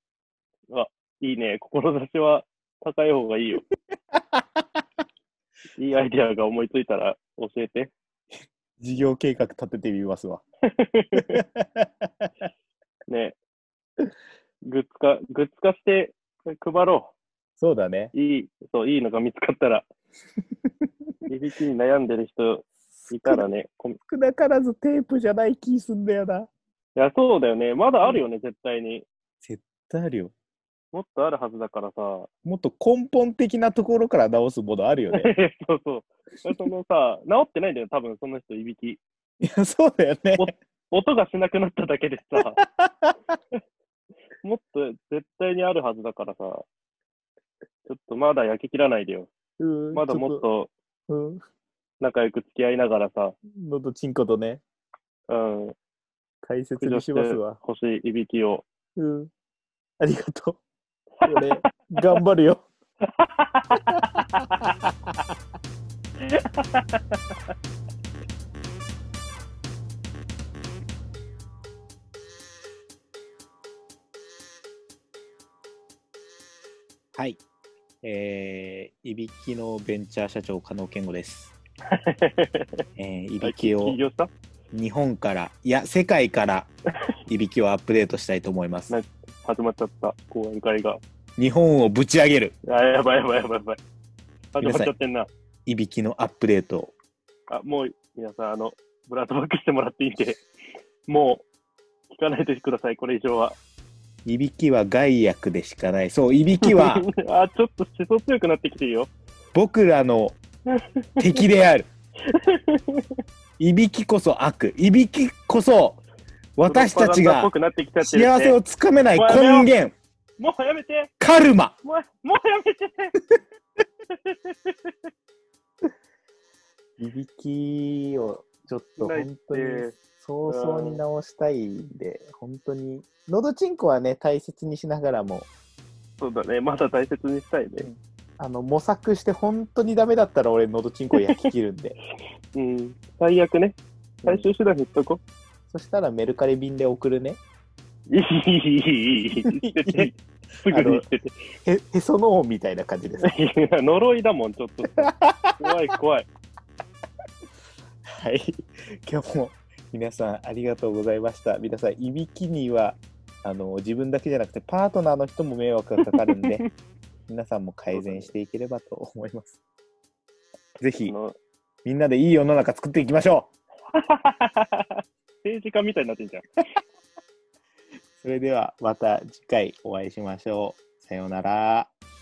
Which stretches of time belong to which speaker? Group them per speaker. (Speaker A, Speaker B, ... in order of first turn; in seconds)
Speaker A: 0.7-3.6, 5.8-7.9, 10.7-11.4, 13.1-13.3, 14.7-17.1, 18.1-19.9, 21.3-24.0, 26.9-29.1, 30.9-32.3, 35.1-39.0, 40.4-42.6, 44.4-46.6, 47.9-49.3, 49.9-50.7, 52.0-53.4, 55.3-55.7, 56.8-58.6, 61.2-61.7, 63.0-64.7, 66.2-67.5, 81.9-82.8, 83.4-84.3, 88.9-91.0, 92.7-93.8, 94.5-95.3, 97.5-100.4, 101.1-101.4, 102.1-103.6, 106.6-109.1, 110.7-111.4, 112.2-113.2, 116.7-118.6, 119.2-119.7, 120.4-121.1, 121.8-123.1, 124.2-124.9, 129.0-129.9, 130.5-131.0, 136.2-137.9, 141.2-141.4, 142.5-145.2, 148.1-150.1, 150.6-151.3, 153.2-156.3, 166.0-166.7, 167.9-168.3, 171.1-171.3, 173.9-176.4
Speaker B: 4.3-4.6, 8.8-10.4, 11.1-12.3, 17.6-18.1, 22.9-23.4, 24.1-26.5, 29.4-30.3, 32.4-35.3, 39.4-40.5, 42.3-43.1, 49.6-50.4, 51.1-51.4, 53.5-54.6, 56.4-57.6, 59.0-59.3, 60.0-60.6, 61.2-62.6, 64.0-64.9, 77.1-77.4, 78.0-81.5, 83.0-84.0, 84.7-86.7, 87.3-89.0, 91.4-92.5, 94.6-94.9, 95.7-96.9, 104.2-107.1, 109.5-110.4, 111.2-111.9, 113.6-116.0, 116.6-119.9, 121.2-121.7, 127.0-135.5, 137.8-142.0, 145.7-147.4, 149.4-150.2, 150.7-151.0, 151.6-153.3, 155.0-155.7, 158.1-166.7, 167.3-169.6, 170.8-171.1, 171.8-173.5, 178.2-181.9